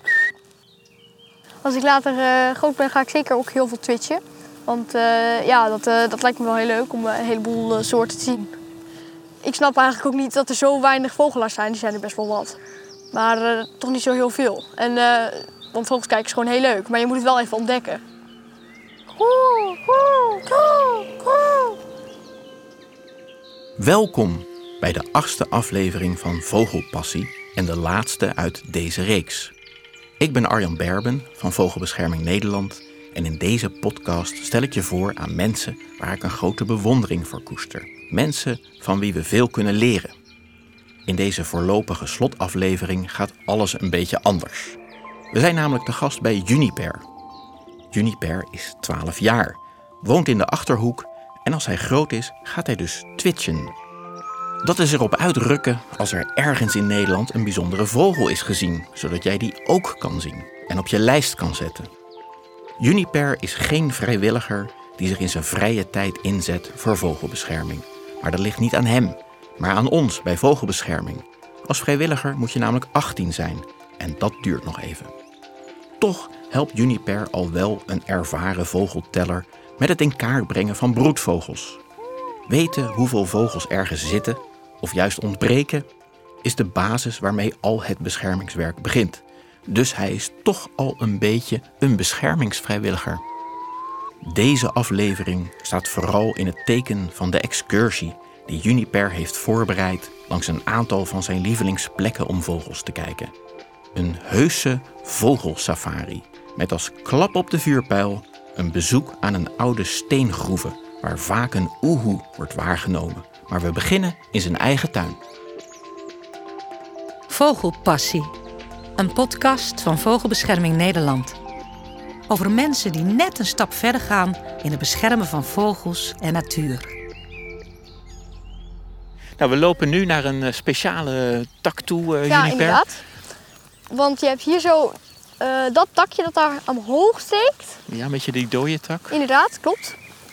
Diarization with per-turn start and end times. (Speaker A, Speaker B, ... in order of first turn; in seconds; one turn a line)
Speaker A: 1.6-8.6
Speaker A: 9.4-12.6
Speaker A: 13.1-18.0
Speaker A: 19.1-21.8
Speaker B: 23.8-29.5
Speaker B: 30.2-40.1
Speaker B: 41.1-44.8
Speaker B: 45.3-47.0
Speaker B: 47.9-53.8
Speaker B: 54.6-61.9
Speaker B: 62.8-75.1
Speaker B: 76.0-81.8
Speaker B: 82.5-85.9
Speaker B: 86.4-93.2
Speaker B: 94.2-103.3
Speaker B: 103.9-115.2
Speaker C: 117.3-118.3
Speaker C: 119.0-121.4
Speaker C: 122.3-126.9
Speaker B: 129.4-132.8
Speaker A: 132.3-133.0
Speaker A: 133.9-137.8
Speaker B: 137.9-139.2
Speaker A: 139.1-140.0